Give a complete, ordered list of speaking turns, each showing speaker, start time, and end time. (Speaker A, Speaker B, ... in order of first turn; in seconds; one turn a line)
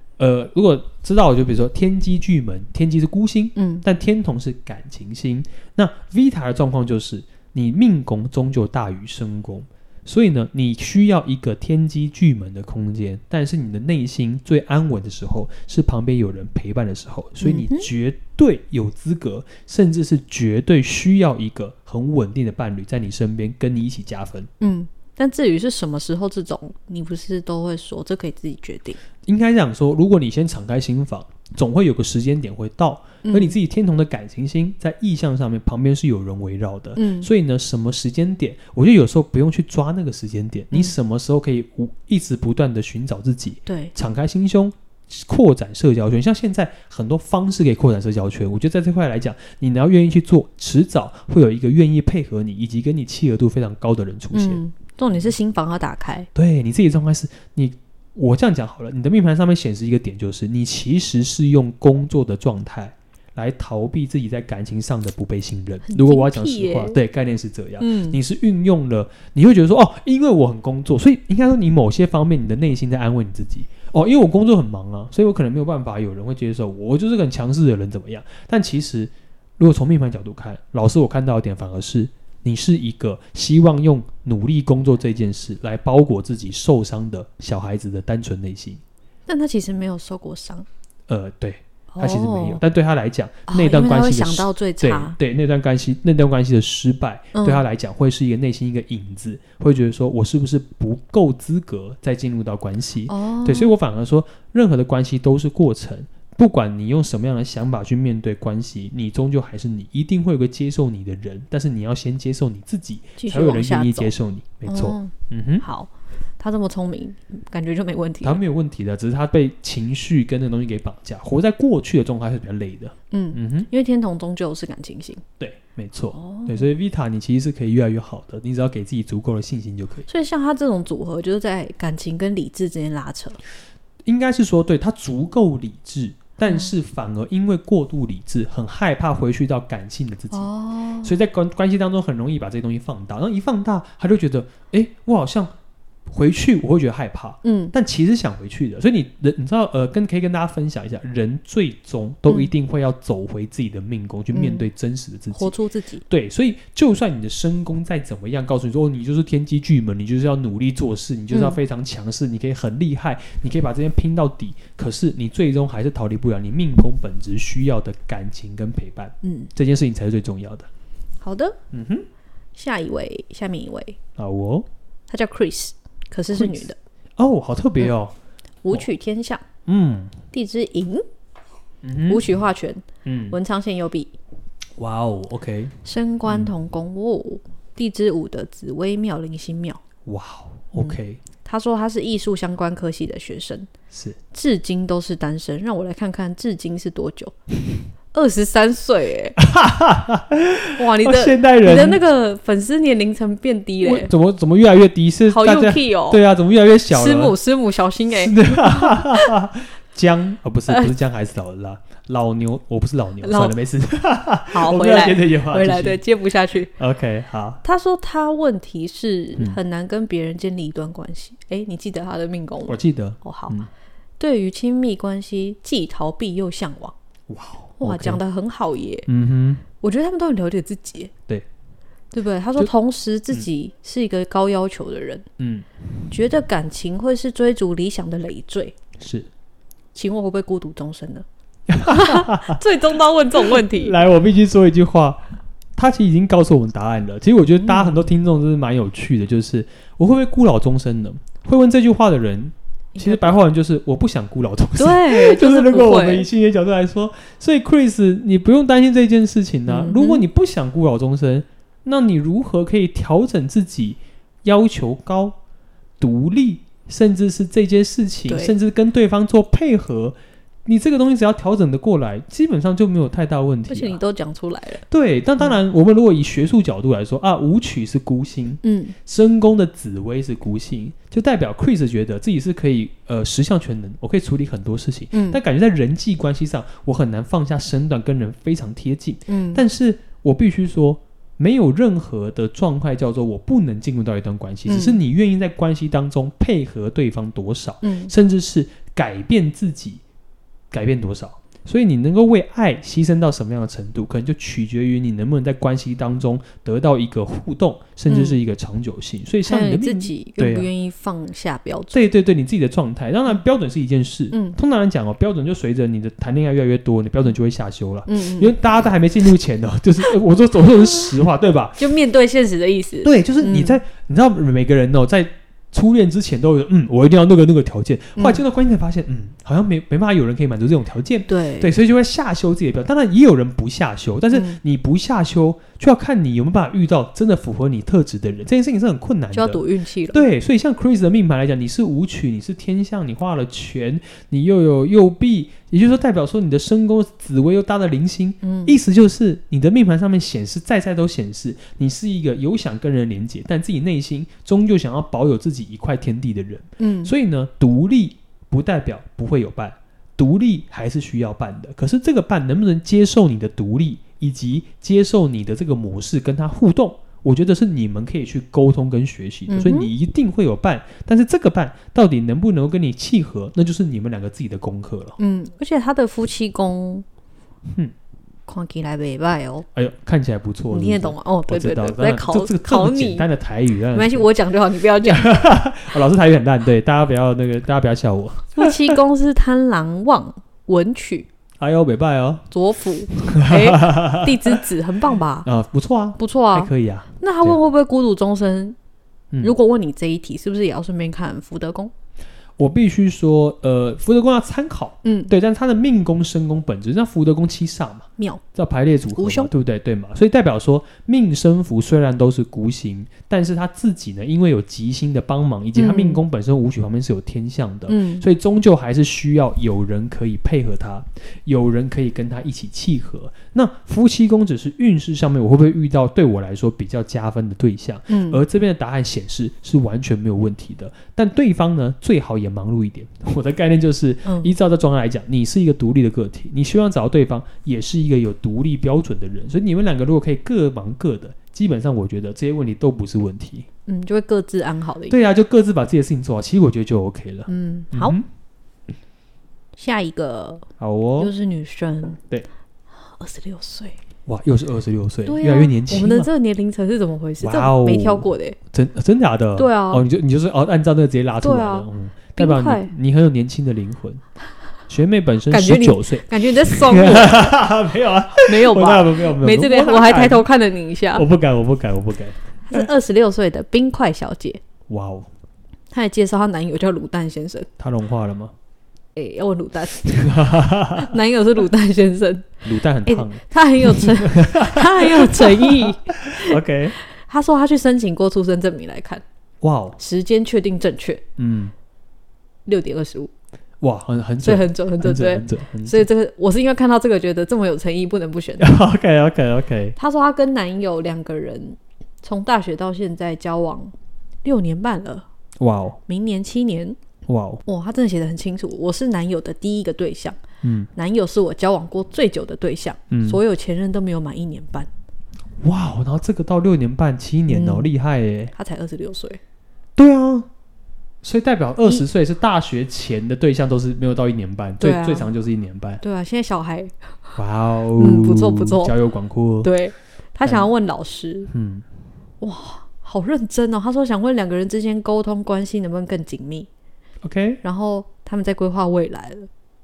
Speaker A: 0.2-24.5
Speaker B: 3.5-3.8
Speaker B: 17.4-17.9
Speaker B: 24.6-29.0
Speaker A: 29.2-54.6
Speaker B: 33.2-33.5
Speaker B: 37.0-37.3
Speaker B: 43.7-43.9
Speaker B: 54.3-56.3
Speaker A: 56.3-88.8
Speaker B: 65.8-67.0
Speaker B: 67.8-68.2
Speaker B: 89.3-90.7
Speaker A: 91.1-115.6
Speaker B: 91.9-92.6
Speaker B: 93.5-95.2
Speaker B: 97.3-97.6
Speaker B: 103.1-103.7
Speaker B: 113.2-114.1
Speaker B: 114.7-118.4
Speaker A: 118.2-123.7
Speaker B: 123.1-125.2
Speaker A: 125.4-130.1
Speaker B: 126.1-126.7
Speaker B: 130.1-133.4
Speaker A: 134.0-140.5
Speaker B: 136.5-136.7
Speaker B: 140.3-141.1
Speaker A: 141.0-145.5
Speaker A: 146.1-155.5
Speaker B: 147.4-147.7
Speaker B: 154.3-154.7
Speaker B: 155.3-156.0
Speaker A: 156.1-170.7
Speaker B: 161.3-161.6
Speaker B: 169.2-169.5
Speaker B: 171.2-171.6
Speaker A: 171.7-172.1
Speaker B: 172.5-174.0
Speaker A: 174.2-174.7
Speaker B: 175.1-176.8
Speaker A: 176.3-178.1
Speaker B: 178.6-179.4
Speaker A: 179.7-180.2
Speaker B: 180.3-181.0
Speaker A: 181.8-182.3
Speaker B: 182.1-184.1
Speaker A: 183.0-183.4
Speaker A: 184.8-185.7
Speaker B: 185.8-189.8
Speaker A: 186.3-186.5
Speaker A: 190.1-191.2
Speaker B: 190.8-193.7
Speaker A: 193.9-194.2
Speaker B: 194.3-197.3
Speaker B: 198.1-199.4
Speaker A: 199.4-202.0
Speaker B: 200.8-204.1
Speaker A: 203.8-207.3
Speaker B: 205.3-206.2
Speaker B: 206.9-209.3
Speaker A: 208.1-216.0
Speaker B: 213.2-213.6
Speaker B: 214.5-216.7
Speaker A: 216.8-217.6
Speaker B: 217.6-223.6
Speaker A: 222.7-223.7
Speaker B: 224.2-226.9
Speaker A: 227.3-228.2
Speaker B: 227.8-229.1
Speaker A: 229.1-229.6
Speaker B: 229.7-231.1
Speaker B: 232.1-235.2
Speaker A: 235.4-235.7
Speaker B: 236.1-238.8
Speaker A: 239.0-239.3
Speaker B: 239.9-241.2
Speaker A: 241.7-242.6
Speaker B: 241.8-244.0
Speaker A: 243.4-245.2
Speaker A: 245.8-265.4
Speaker B: 247.6-247.9
Speaker B: 252.9-253.4
Speaker B: 254.8-256.3
Speaker B: 259.7-260.2
Speaker A: 266.0-274.0
Speaker B: 268.3-268.5
Speaker B: 273.7-274.8
Speaker A: 274.9-300.0
Speaker B: 278.6-278.9
Speaker B: 285.1-285.4
Speaker B: 289.3-289.6
Speaker B: 294.7-295.0
Speaker B: 297.8-298.1
Speaker A: 300.7-310.7
Speaker B: 308.1-308.4
Speaker B: 309.4-312.0
Speaker A: 311.9-321.8
Speaker B: 314.3-314.6
Speaker B: 318.1-318.5
Speaker B: 321.8-323.8
Speaker A: 323.0-375.1
Speaker B: 328.2-328.4
Speaker B: 331.3-331.7
Speaker B: 334.3-334.6
Speaker B: 339.3-340.3
Speaker B: 348.4-348.8
Speaker B: 356.8-357.1
Speaker B: 369.5-369.9
Speaker B: 375.2-377.0
Speaker B: 378.5-379.7
Speaker A: 379.7-384.3
Speaker B: 380.7-383.3
Speaker B: 383.9-385.4
Speaker A: 385.0-388.9
Speaker B: 388.6-391.3
Speaker A: 391.6-392.5
Speaker B: 392.5-395.5
Speaker A: 393.3-394.6
Speaker A: 395.4-397.6
Speaker B: 396.2-398.8
Speaker B: 399.4-401.9
Speaker A: 402.6-443.7
Speaker B: 405.0-405.3
Speaker B: 409.1-409.5
Speaker B: 415.8-416.2
Speaker B: 417.9-418.2
Speaker B: 428.1-428.4
Speaker B: 434.2-434.5
Speaker B: 443.9-445.2
Speaker A: 445.1-448.2
Speaker B: 447.5-448.2
Speaker B: 449.8-450.7
Speaker A: 450.8-451.3
Speaker B: 451.2-452.2
Speaker B: 453.0-454.0
Speaker A: 454.3-456.3
Speaker B: 455.2-458.6
Speaker A: 457.4-464.2
Speaker B: 459.6-460.0
Speaker B: 461.4-462.9
Speaker A: 464.9-470.4
Speaker B: 465.5-467.6
Speaker B: 468.4-471.3
Speaker A: 471.1-472.9
Speaker B: 472.7-474.6
Speaker A: 474.9-475.3
Speaker B: 475.9-477.7
Speaker A: 477.8-478.5
Speaker B: 479.1-489.2
Speaker A: 480.0-481.1
Speaker A: 482.6-486.9
Speaker A: 489.6-490.0
Speaker B: 490.0-491.2
Speaker A: 491.4-491.7
Speaker B: 492.6-493.3
Speaker A: 493.8-496.1
Speaker B: 494.4-498.8
Speaker A: 498.6-499.9
Speaker B: 499.9-503.9
Speaker B: 504.4-505.2
Speaker A: 505.6-506.0
Speaker B: 506.1-507.0
Speaker A: 507.3-507.6
Speaker B: 507.6-510.4
Speaker A: 510.6-510.9
Speaker B: 510.9-514.9
Speaker A: 513.1-513.4
Speaker A: 515.6-518.5
Speaker B: 517.5-517.9
Speaker B: 518.5-519.4
Speaker A: 520.0-520.5
Speaker A: 521.2-526.0
Speaker B: 524.8-525.3
Speaker B: 526.0-526.9
Speaker A: 527.4-529.7
Speaker B: 528.0-528.9
Speaker B: 529.6-531.5
Speaker A: 530.4-530.7
Speaker A: 531.5-531.8
Speaker B: 532.4-536.7
Speaker A: 537.2-537.6
Speaker B: 537.6-539.5